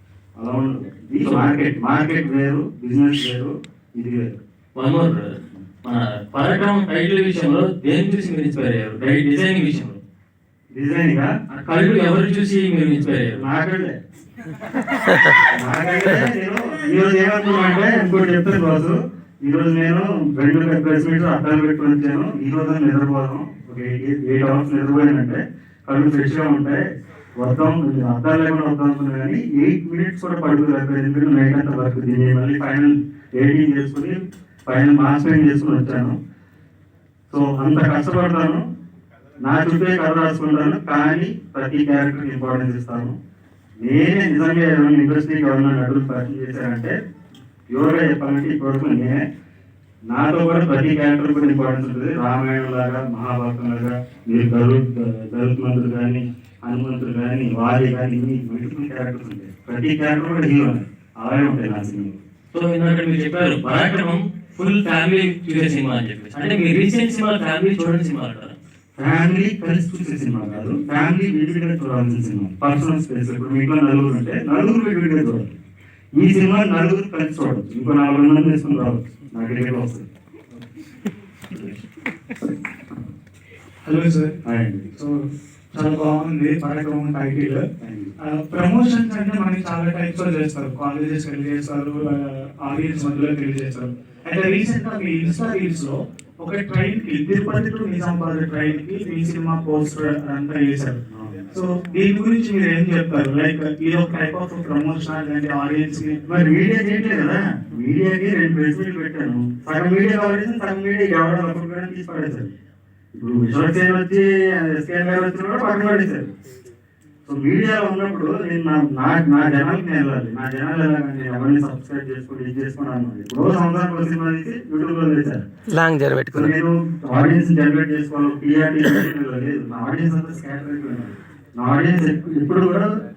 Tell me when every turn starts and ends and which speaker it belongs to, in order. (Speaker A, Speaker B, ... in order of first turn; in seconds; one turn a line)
Speaker A: 0.4-4.4
Speaker B: 1.2-1.5
Speaker B: 4.8-10.0
Speaker A: 10.7-11.4
Speaker B: 11.5-13.4
Speaker A: 13.3-14.0
Speaker A: 15.5-26.8
Speaker A: 27.4-36.2
Speaker A: 37.3-38.6
Speaker A: 39.4-43.1
Speaker A: 43.8-47.0
Speaker A: 47.7-49.2
Speaker A: 50.1-62.2
Speaker B: 62.5-68.5
Speaker A: 69.0-75.6
Speaker A: 76.2-80.1
Speaker C: 83.8-84.3
Speaker A: 84.4-84.9
Speaker C: 84.9-87.6
Speaker A: 87.8-88.1
Speaker C: 88.2-101.0
Speaker A: 101.1-101.5
Speaker C: 101.5-106.2
Speaker A: 106.3-112.5
Speaker A: 113.1-116.3
Speaker A: 117.2-125.4
Speaker A: 126.3-132.9